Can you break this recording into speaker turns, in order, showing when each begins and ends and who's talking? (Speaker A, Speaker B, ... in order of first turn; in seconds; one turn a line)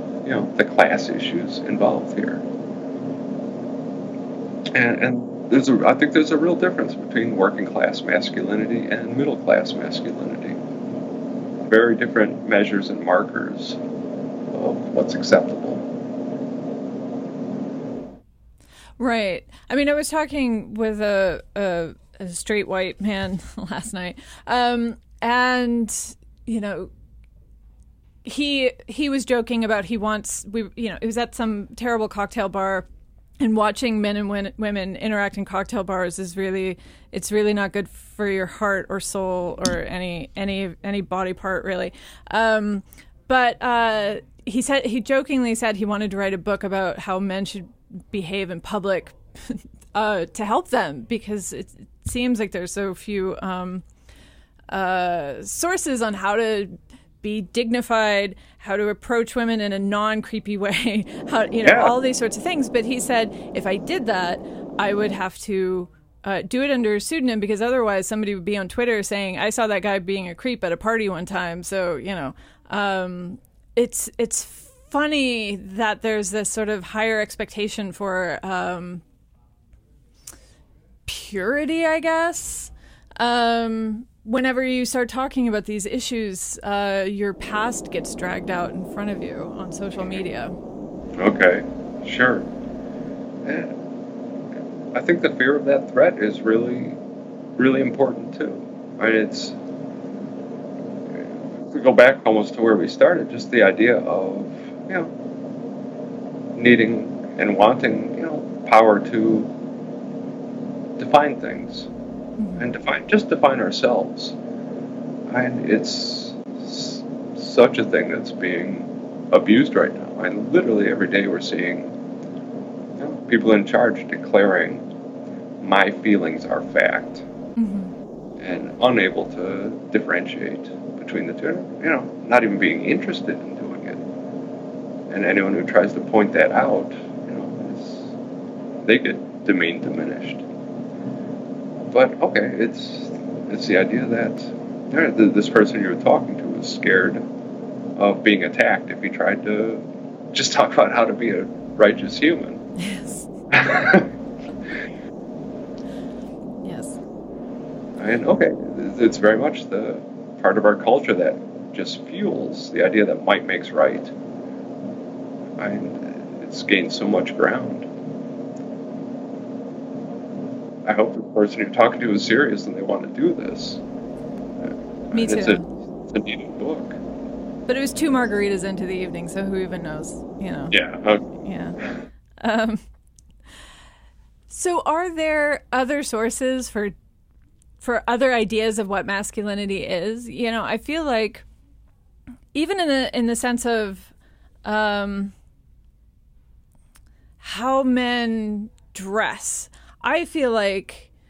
Speaker A: 0.2-2.4
Speaker A: 4.7-10.6
Speaker A: 11.6-13.8
Speaker A: 14.5-15.9
Speaker B: 19.0-26.9
Speaker B: 28.2-32.9
Speaker B: 33.4-53.8
Speaker B: 54.7-79.0
Speaker A: 61.6-61.9
Speaker B: 81.0-90.6
Speaker A: 91.2-92.5
Speaker A: 93.4-93.7
Speaker A: 94.9-97.0
Speaker A: 97.6-99.6
Speaker A: 101.1-105.1
Speaker A: 106.5-109.5
Speaker A: 111.0-111.9
Speaker B: 112.4-112.7
Speaker A: 112.6-114.3
Speaker A: 115.3-121.9
Speaker A: 123.0-124.8
Speaker A: 125.6-127.2
Speaker B: 127.6-127.9
Speaker A: 128.4-134.0
Speaker A: 135.1-138.2
Speaker A: 138.8-140.4
Speaker A: 141.9-147.2
Speaker A: 147.9-152.6
Speaker B: 152.8-153.3
Speaker A: 153.5-154.1
Speaker B: 156.6-157.0
Speaker A: 158.0-164.1
Speaker A: 165.6-167.9
Speaker A: 170.8-173.8
Speaker A: 174.6-177.0
Speaker B: 175.1-175.7
Speaker B: 177.7-180.8
Speaker A: 180.7-181.2
Speaker B: 181.4-181.8
Speaker B: 182.4-182.8
Speaker B: 184.5-186.9
Speaker B: 187.8-191.4
Speaker B: 192.5-194.1
Speaker B: 194.6-195.3
Speaker B: 197.4-201.1